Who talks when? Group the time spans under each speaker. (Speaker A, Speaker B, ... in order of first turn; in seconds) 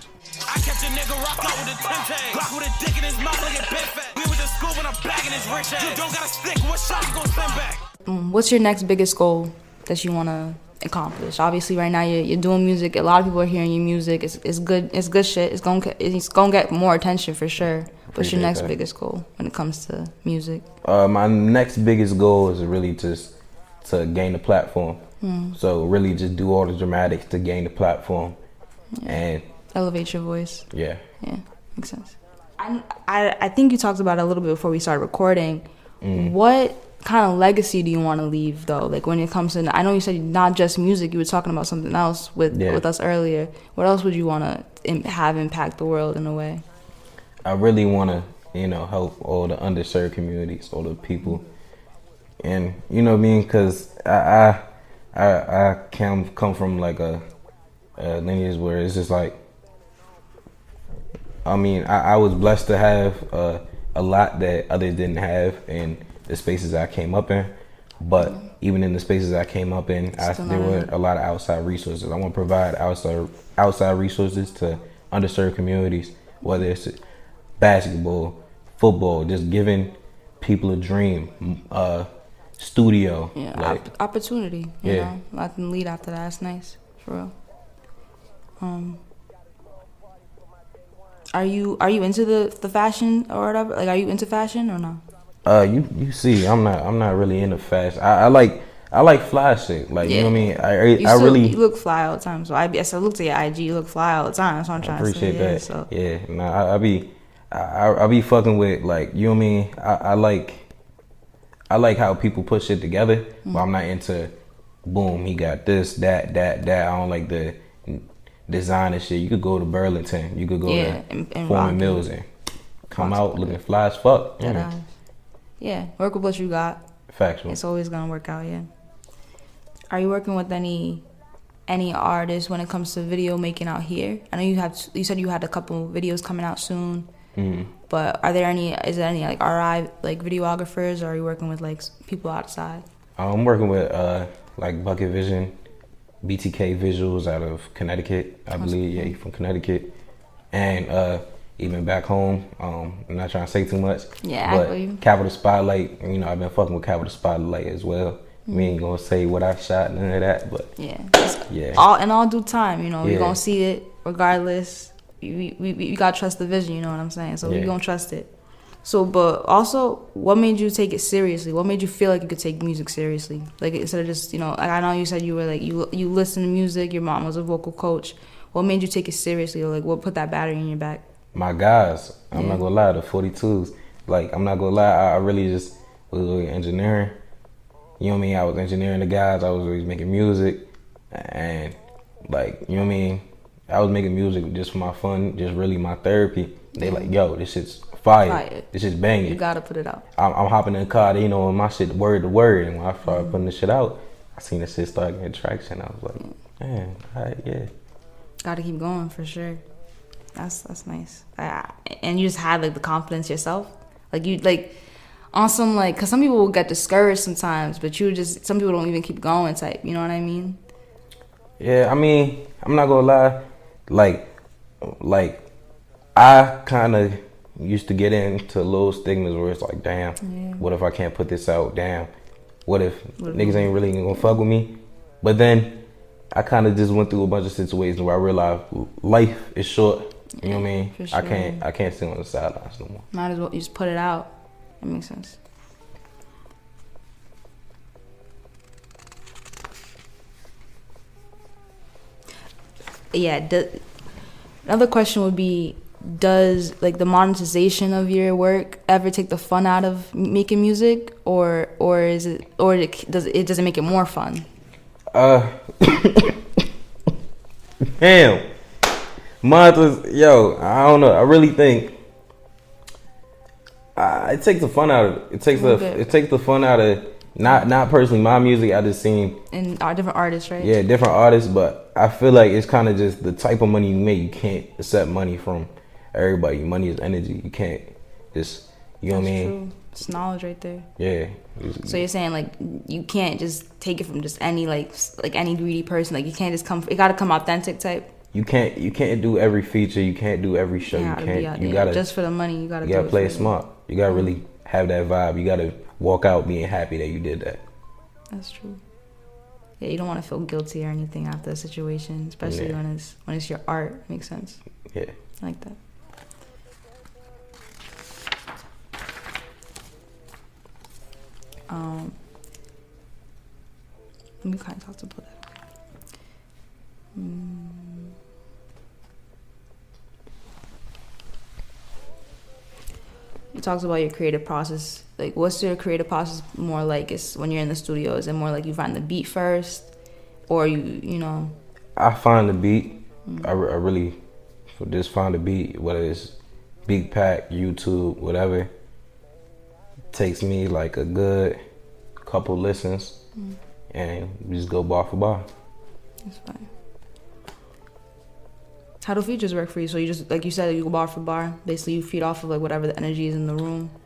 Speaker A: 0.5-7.8
Speaker B: 8.1-20.6, 25.2-25.6, 29.7-30.7, 31.2-46.6, 70.2-70.9, 83.3-87.3, 88.6-89.0, 91.3-95.0, 100.0-105.9, 120.7-122.1, 123.0-123.6, 124.4-124.9, 125.6-126.8, 127.5-128.7, 129.9-131.1, 131.7-137.1, 137.9-142.8, 148.6-149.1, 154.2-155.0, 158.5-158.7, 160.8-168.3, 168.8-181.0, 182.3-182.6, 196.8-197.1, 198.3-198.6, 199.2-200.0, 203.1-203.4, 208.4-209.6, 210.3-214.8, 215.3-220.6, 230.2-230.6, 233.2-233.7, 240.4-241.6, 243.1-245.4, 253.1-253.8, 254.6-264.5, 275.5-276.0, 279.5-280.7, 289.1-290.9, 291.9-298.1, 300.9-303.6, 304.1-304.4, 308.3-308.8, 309.8-314.6, 315.4-315.8, 321.7-322.2, 324.4-325.4, 327.1-328.1, 333.5-339.9, 340.5-341.5, 356.2-356.7, 359.0-363.9
Speaker C: 18.1-18.7, 20.8-25.0, 25.5-28.4, 29.0-29.4, 30.7-31.0, 36.0-36.3, 42.5-42.8, 47.4-51.4, 52.4-54.6, 55.1-57.2, 58.0-59.4, 61.4-77.0, 77.6-83.8, 84.8-85.1, 95.4-101.6, 104.8-110.7, 111.7-114.3, 114.8-122.3, 122.9-124.7, 127.1-127.6, 137.3-137.7, 143.2-145.5, 146.2-149.9, 150.5-160.7, 161.5-161.8, 163.0-163.4, 167.4-167.7, 181.3-187.2, 188.0-199.4, 200.2-207.7, 221.6-224.3, 224.8-225.4, 226.1-232.1, 232.7-235.8, 236.3-243.1, 265.1-266.6, 267.8-268.5, 269.4-271.9, 273.9-279.4, 280.6-289.5, 291.0-292.1, 298.3-302.1, 302.8-307.6, 312.4-312.8, 341.9-344.2, 344.7-346.3, 346.9-348.7, 350.1-351.6, 352.2-353.2, 353.9-355.5